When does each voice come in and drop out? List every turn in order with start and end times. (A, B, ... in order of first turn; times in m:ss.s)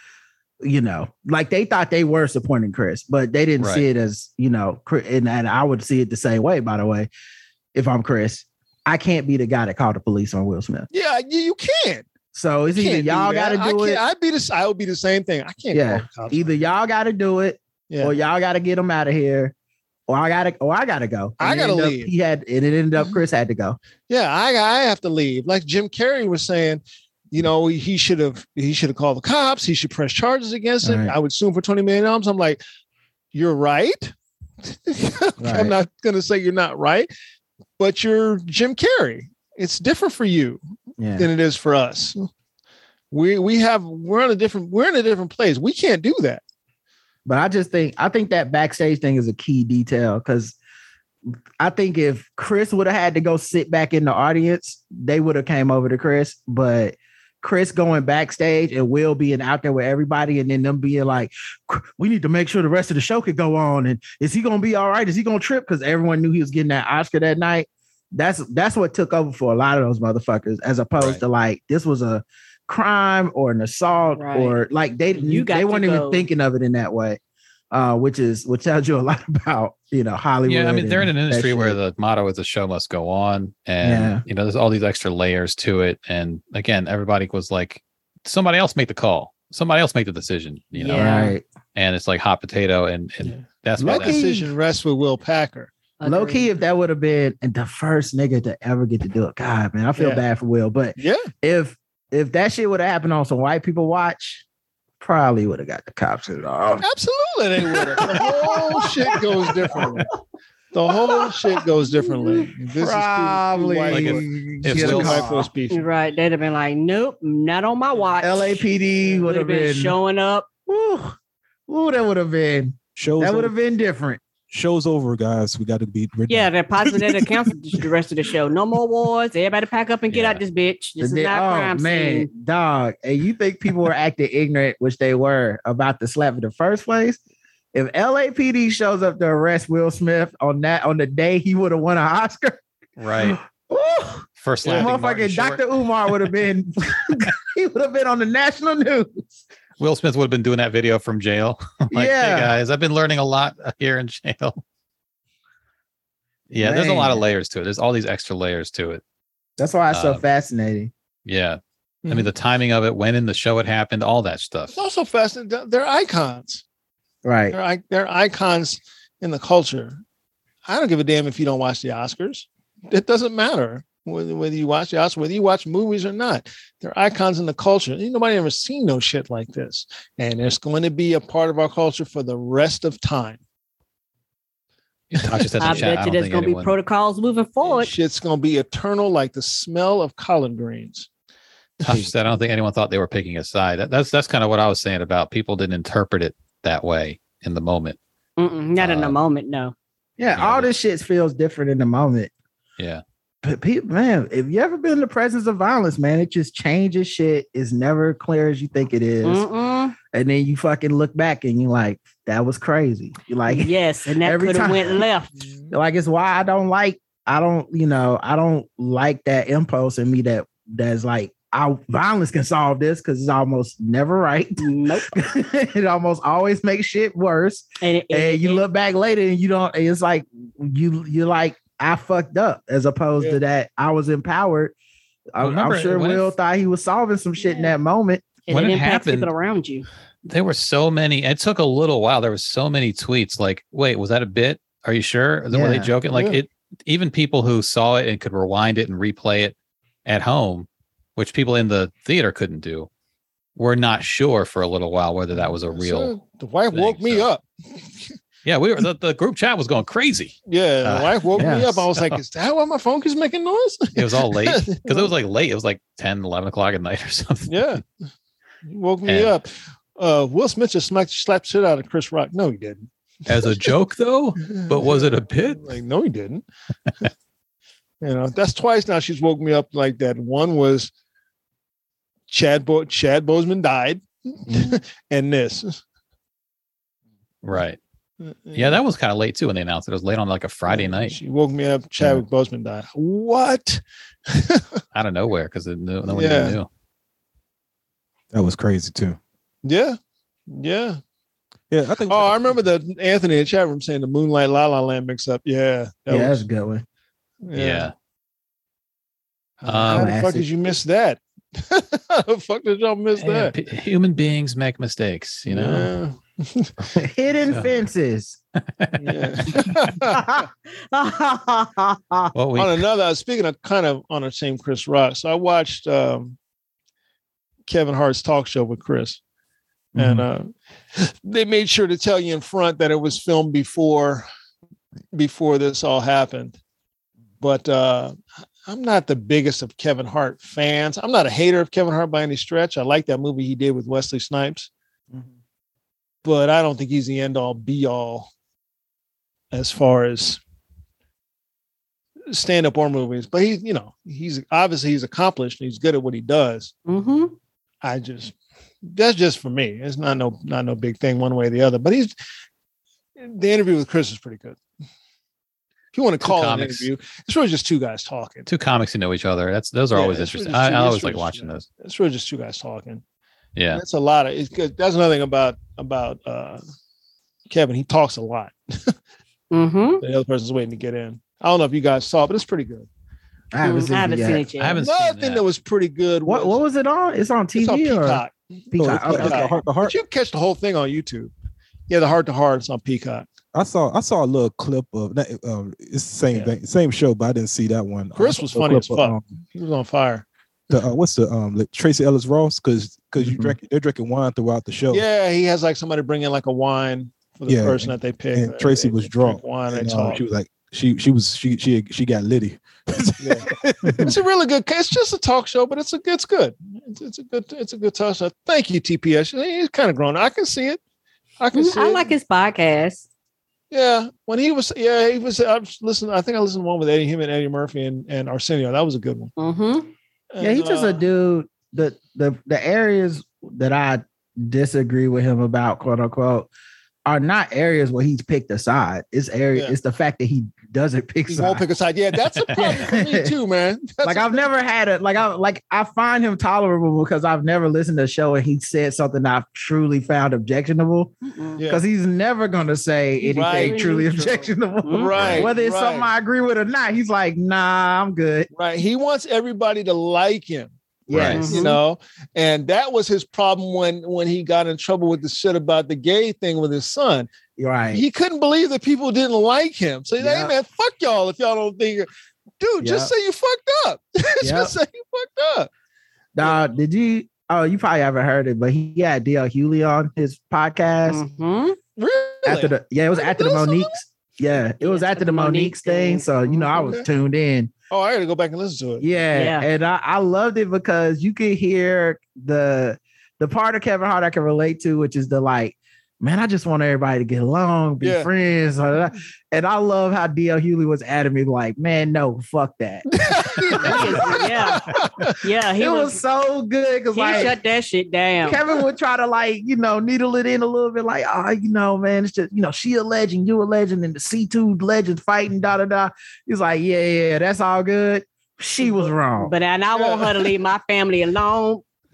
0:00.6-0:07.1 A
0:07.7-0:10.9 A
0:10.9-0:12.1 B
0:12.3-0:14.0 A
0:12.7-0:16.6 B
0:15.7-0:19.5 A
0:17.9-0:18.2 B
0:20.1-0:23.8 A
0:21.4-0:22.1 B
0:24.1-0:32.6 B
0:30.8-0:31.2 A
0:33.3-0:37.1 B
0:35.4-0:35.7 A
0:37.8-0:40.6 B
0:41.0-0:41.3 A
0:41.2-0:42.3 B
0:43.1-0:46.4 B
0:47.2-0:50.6 A
0:51.6-1:17.2 A
1:14.1-1:14.6 C
1:15.1-1:16.3 C
1:17.7-1:21.8 A
1:20.4-1:31.2 D
1:23.8-1:24.2 A
1:30.8-1:31.4 C
1:30.9-1:31.4 A
1:31.7-1:34.2 D
1:33.2-1:35.7 B
1:33.8-1:34.5 A
1:36.0-1:36.5 C
1:36.0-1:44.4 A
1:40.0-1:40.2 B
1:41.0-1:41.3 B
1:45.0-1:46.8 A
1:46.8-1:50.1 B
1:47.6-1:50.0 A
1:50.7-1:55.8 B
1:50.9-1:55.5 A
1:53.9-1:55.3 D
1:55.7-2:00.5 C
1:58.2-2:00.0 A
2:00.7-2:01.2 A
2:01.7-2:04.2 A
2:03.0-2:03.5 E
2:04.5-2:07.5 E
2:06.3-2:12.3 C
2:10.1-2:10.4 D
2:11.0-2:17.2 A
2:17.7-2:22.6 A
2:23.0-2:23.4 D
2:23.2-2:29.3 A
2:24.4-2:25.6 D
2:29.8-2:34.6 D
2:31.9-2:32.5 A
2:36.5-2:39.0 D
2:36.6-2:37.2 A
2:39.6-2:40.9 A
2:39.9-2:40.2 D
2:41.2-2:44.8 D
2:42.0-2:42.3 B
2:44.7-2:46.6 B
2:47.2-2:47.6 A
2:47.5-2:50.0 B
2:50.6-3:03.4 B
3:05.1-3:06.7 D
3:05.2-3:05.9 B
3:05.6-3:07.9 C
3:07.6-3:11.1 B
3:11.8-3:12.1 B
3:11.8-3:18.0 D
3:18.4-3:19.7 C
3:18.8-3:19.2 D
3:20.2-3:22.3 A
3:20.3-3:20.7 D
3:23.4-3:29.4 A
3:29.2-3:29.9 C
3:30.1-3:35.0 A
3:33.5-3:35.4 C
3:35.4-3:35.7 B
3:35.7-3:54.7 A
3:44.6-3:45.1 C
3:47.8-3:48.6 C
3:55.3-3:58.2 A
3:55.4-3:56.3 D
3:57.4-3:57.7 C
3:58.4-3:59.8 C
3:58.5-3:59.3 D
4:00.2-4:09.5 D
4:05.5-4:05.9 A
4:06.1-4:06.4 B
4:10.0-4:12.9 D
4:13.6-4:16.2 D
4:15.4-4:18.1 B
4:16.7-4:17.3 D
4:18.4-4:22.2 D
4:20.5-4:25.1 B
4:21.4-4:21.8 A
4:23.9-4:27.8 D
4:27.5-4:27.8 B
4:28.6-4:32.9 B
4:29.0-4:29.3 D
4:33.3-4:35.6 D
4:34.4-4:36.4 B
4:38.0-4:40.9 B
4:42.3-4:45.8 B
4:47.4-4:47.8 D
4:48.2-4:48.8 B
4:48.5-4:51.2 D
4:50.7-4:54.6 B
4:54.9-4:56.7 D
4:56.0-4:56.6 B
4:58.3-4:59.2 E
4:59.6-5:00.0 B
5:00.5-5:01.0 B
5:01.7-5:02.6 E
5:02.1-5:06.4 B
5:06.1-5:06.8 A
5:07.4-5:07.9 B
5:07.5-5:07.9 D
5:09.6-5:13.5 B
5:09.6-5:10.1 D
5:09.9-5:10.5 A
5:13.2-5:15.9 D
5:15.5-5:16.7 B
5:17.0-5:18.4 A
5:18.8-5:19.7 D
5:19.0-5:20.4 B
5:20.1-5:20.4 A
5:20.9-5:21.8 C
5:22.3-5:22.8 D
5:22.6-5:26.4 B
5:27.6-5:29.2 B
5:30.0-5:30.2 A
5:30.0-5:34.3 B
5:35.1-5:36.6 B
5:37.4-5:44.7 B
5:46.2-5:48.3 B
5:49.5-5:50.4 B
5:52.3-5:56.7 B
5:56.8-5:57.3 C
5:57.8-5:58.3 B
5:58.9-6:02.2 B
6:03.2-6:04.6 B
6:05.9-6:08.5 B
6:06.2-6:06.9 D
6:08.5-6:11.7 D
6:09.9-6:13.0 B
6:13.6-6:13.8 D
6:13.7-6:16.6 B
6:17.5-6:18.9 B
6:19.5-6:20.0 C
6:20.0-6:22.9 B
6:23.5-6:24.4 A
6:23.6-6:24.8 C
6:24.6-6:25.4 D
6:24.8-6:26.6 B
6:26.2-6:29.5 A
6:27.5-6:31.3 B
6:28.8-6:30.0 E
6:31.9-6:33.3 B
6:33.5-6:39.2 E
6:38.2-6:40.2 B
6:40.7-6:45.0 E
6:44.9-6:50.2 B
6:47.5-6:54.1 E
6:53.2-6:53.5 B
6:54.0-7:00.8 B
7:01.4-7:02.1 B
7:01.5-7:03.0 C
7:03.7-7:09.3 B
7:09.4-7:09.9 C
7:10.3-7:11.0 B
7:10.4-7:16.5 A
7:17.0-7:21.6 A
7:21.3-7:24.4 B
7:22.3-7:22.9 D
7:22.6-7:23.3 A
7:24.0-7:31.1 A
7:31.2-7:31.6 C
7:31.6-7:31.8 B
7:31.7-7:38.5 A
7:33.2-7:36.1 B
7:33.3-7:34.1 C
7:34.8-7:35.3 C
7:38.5-7:47.3 B
7:41.1-7:41.7 A
7:41.1-7:41.4 D
7:41.4-7:41.8 C
7:47.6-7:48.0 A
7:47.9-7:52.1 B
7:50.2-7:50.5 A
7:52.6-7:55.7 B
7:52.8-7:53.1 A
7:54.4-7:54.7 A
7:56.4-8:01.2 A
8:01.1-8:01.8 C
8:02.0-8:04.0 B
8:02.4-8:07.7 A
8:04.8-8:06.9 C
8:07.9-8:09.1 B
8:09.0-8:24.4 A
8:09.3-8:09.7 C
8:18.0-8:18.3 B
8:23.1-8:25.4 B
8:23.8-8:24.8 C
8:25.4-8:26.2 C
8:25.8-8:27.5 A
8:27.1-8:28.6 C
8:28.4-8:39.5 A
8:38.8-8:41.8 C
8:39.9-8:40.5 B